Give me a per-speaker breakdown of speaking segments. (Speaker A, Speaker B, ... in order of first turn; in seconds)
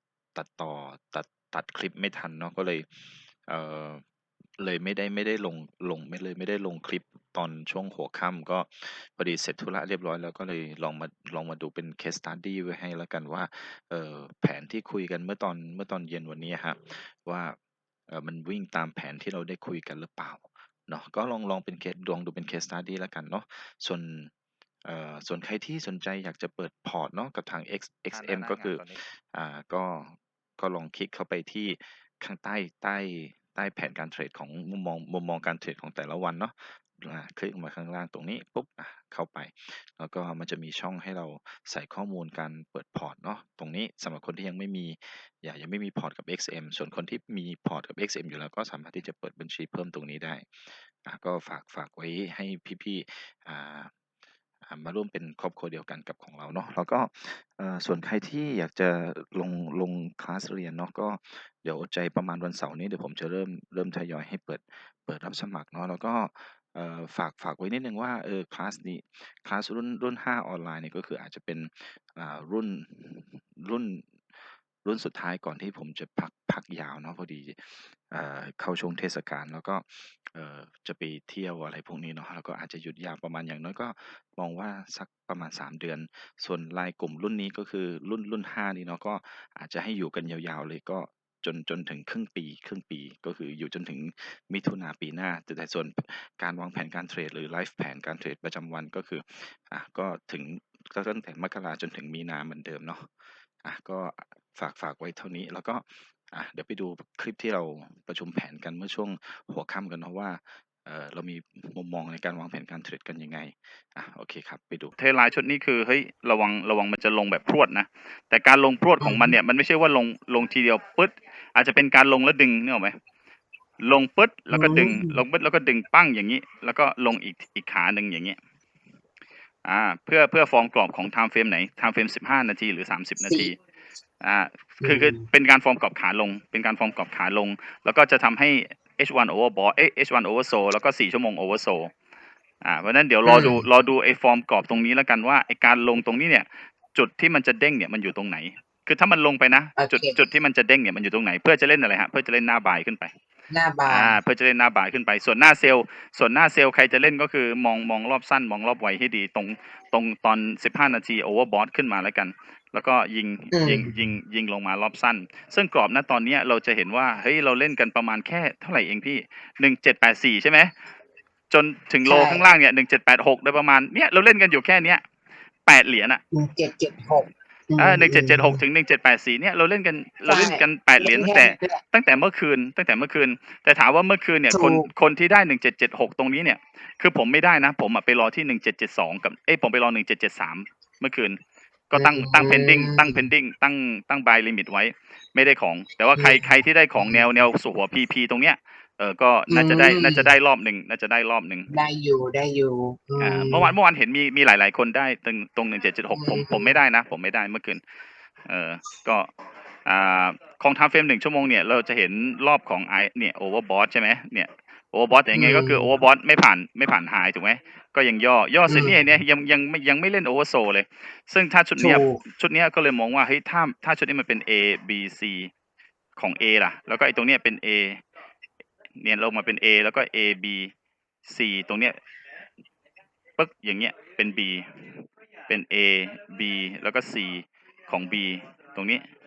Speaker A: 0.3-4.0, 4.6-17.6, 18.1-24.3, 24.8-53.9, 54.6-103.1, 103.6-114.9
Speaker B: 28.1-29.0, 115.0-122.9, 123.8-128.4, 129.6-133.6, 134.2-141.9, 142.6-153.1, 153.9-170.7, 171.5-175.0, 175.7-176.2, 177.8-191.4, 191.9-201.7, 203.2-207.8, 208.4-209.3, 209.8-225.5, 226.2-228.0, 229.0-230.7, 231.2-231.9, 233.4-234.9, 235.5-239.1
Speaker C: 119.0-119.3, 124.5-125.2, 133.2-133.5, 134.8-135.2, 143.2-143.7, 149.8-150.2, 153.5-154.2, 163.5-163.9, 172.0-172.5, 176.3-178.6, 180.3-181.8, 184.5-184.9, 191.9-193.2, 196.2-196.4, 197.0-197.3, 199.5-200.3, 201.7-203.7, 206.1-206.7, 215.3-215.9, 218.7-219.0, 221.8-222.2